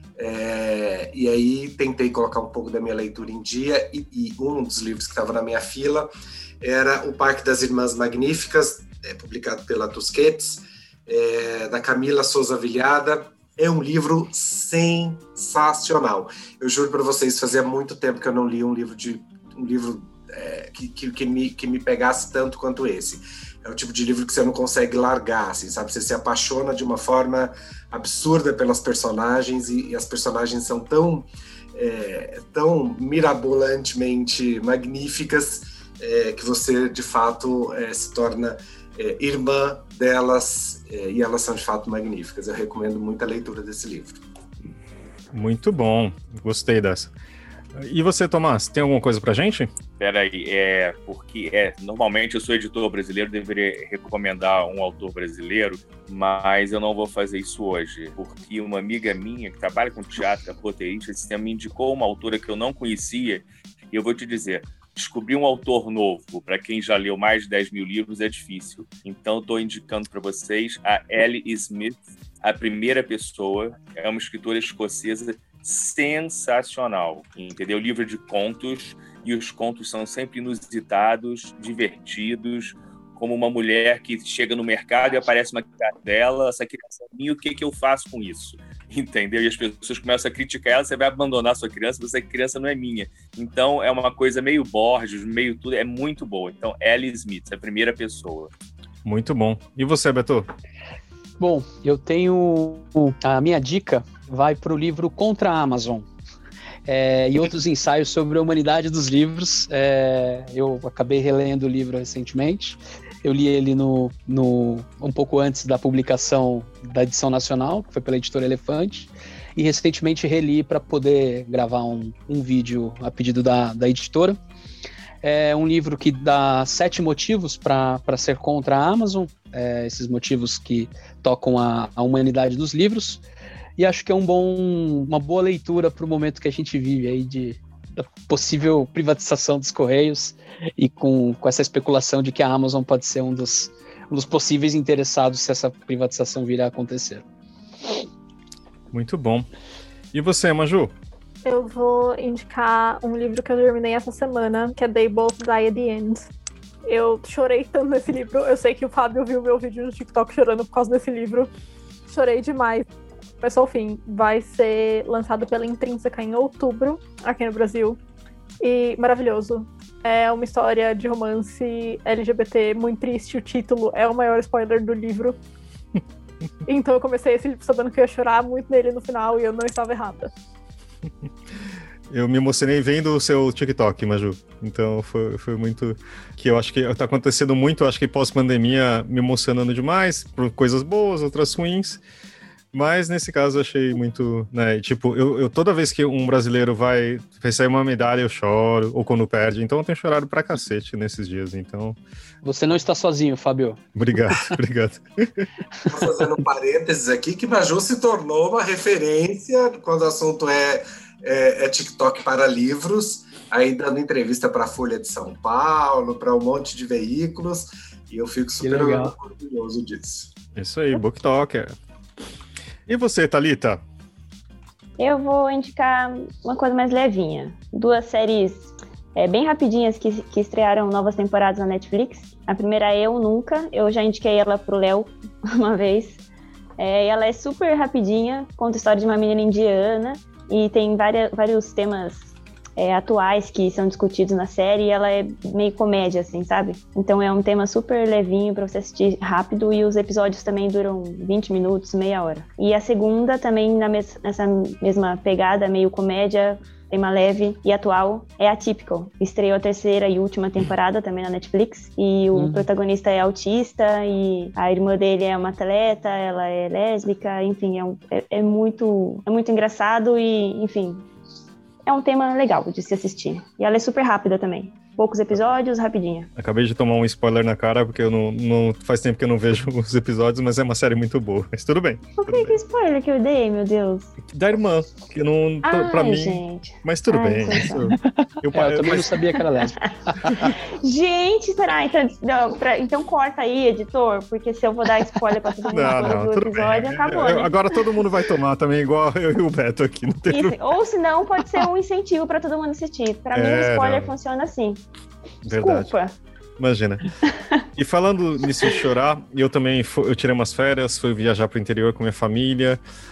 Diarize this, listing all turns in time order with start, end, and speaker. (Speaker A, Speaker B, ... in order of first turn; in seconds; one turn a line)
Speaker A: 0.2-6.1
Speaker A: 6.6-44.2
Speaker B: 45.3-47.1
Speaker B: 47.7-49.7
Speaker C: 50.0-98.5
Speaker B: 99.0-100.5
Speaker D: 101.4-106.0
Speaker D: 106.8-124.4
Speaker D: 125.2-133.2
Speaker D: 133.8-147.2
Speaker B: 148.9-149.5
Speaker B: 150.1-150.9
Speaker E: 151.4-156.3
Speaker E: 156.9-161.5
Speaker E: 162.1-162.9
Speaker E: 163.4-168.0
Speaker E: 168.6-175.4
Speaker E: 176.7-180.3
Speaker B: 182.1-192.0
Speaker B: 192.7-202.0
Speaker D: 202.4-203.8
Speaker B: 203.9-205.5
Speaker A: 205.9-220.3
Speaker D: 218.6-219.1
Speaker B: 220.5-221.7
Speaker B: 222.9-223.8
Speaker F: 225.0-236.2
Speaker F: 236.8-271.1
Speaker D: 262.3-262.6
Speaker F: 271.9-276.3
Speaker B: 276.4-282.6
Speaker F: 282.2-284.1
Speaker B: 284.3-289.1
Speaker F: 285.6-288.0
Speaker D: 288.5-290.5
Speaker F: 289.8-298.0
Speaker B: 295.7-300.6
Speaker F: 300.3-304.8
Speaker B: 303.3-304.1
Speaker B: 305.4-305.9
Speaker F: 305.5-306.1
Speaker B: 306.6-307.1
Speaker F: 307.3-307.6
Speaker B: 307.8-312.8